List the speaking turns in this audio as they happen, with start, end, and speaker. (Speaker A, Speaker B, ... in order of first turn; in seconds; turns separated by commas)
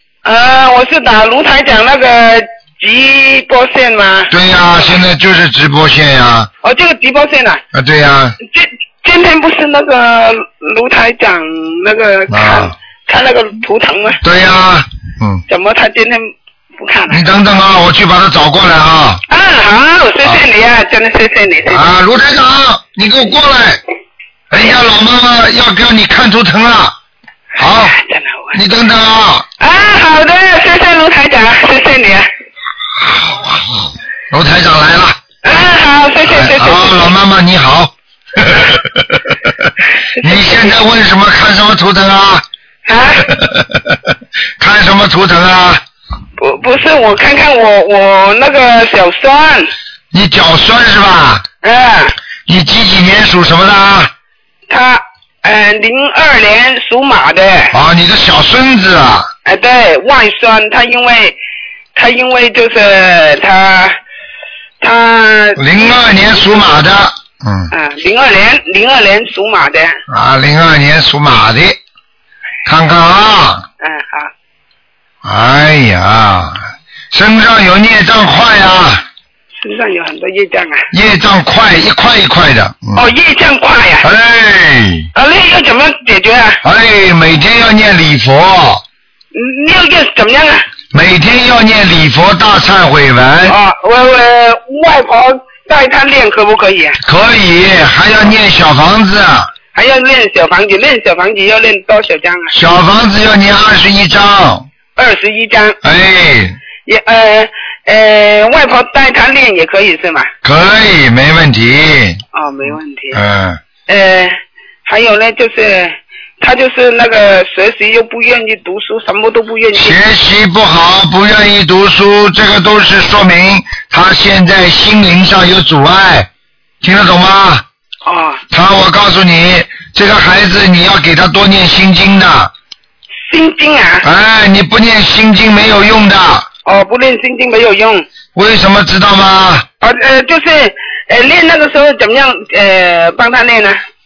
Speaker A: 0.2-4.3, Speaker B: 4.3-6.5, Speaker A: 6.6-7.6, Speaker B: 7.7-8.4, Speaker A: 8.5-14.2, Speaker B: 12.3-12.7, Speaker B: 14.2-15.4, Speaker A: 15.5-17.3, Speaker B: 17.1-19.2, Speaker A: 19.3-21.9, Speaker B: 21.7-23.8, Speaker B: 24.5-27.0, Speaker B: 27.6-28.0, Speaker A: 27.7-28.6, Speaker B: 28.5-29.5, Speaker A: 29.6-32.3, Speaker B: 33.0-35.2, Speaker A: 35.4-37.1, Speaker B: 36.3-39.7, Speaker A: 40.2-40.8, Speaker B: 40.2-42.5, Speaker A: 42.9-43.3, Speaker B: 43.3-45.8, Speaker A: 46.4-49.7, Speaker B: 50.1-51.5, Speaker A: 51.6-52.1, Speaker B: 52.5-54.1, Speaker A: 54.7-57.8, Speaker B: 57.7-59.3, Speaker A: 59.5-61.4, Speaker A: 62.0-64.0, Speaker A: 64.8-65.9, Speaker B: 65.6-67.7, Speaker A: 67.7-70.0, Speaker B: 70.1-71.8, Speaker B: 72.7-73.7, Speaker A: 73.8-74.3, Speaker B: 75.2-79.0, Speaker A: 79.6-80.9, Speaker B: 80.9-83.0, Speaker A: 83.0-84.1, Speaker B: 84.0-85.1, Speaker A: 85.2-86.6, Speaker B: 86.6-88.8, Speaker A: 89.3-90.6, Speaker B: 90.9-93.6, Speaker A: 93.5-97.0, Speaker B: 97.0-99.5, Speaker A: 99.7-102.5, Speaker B: 102.5-104.7, Speaker A: 105.0-105.8, Speaker B: 105.8-106.6, Speaker A: 106.8-110.3, Speaker B: 110.4-112.2, Speaker A: 112.3-113.2, Speaker B: 113.1-113.6, Speaker A: 113.9-120.0, Speaker B: 119.8-126.3, Speaker B: 126.8-127.7, Speaker A: 128.0-128.4, Speaker B: 128.5-132.5, Speaker A: 133.3-134.1, Speaker B: 134.0-136.5, Speaker A: 136.7-138.1, Speaker B: 138.3-139.7, Speaker A: 139.8-143.8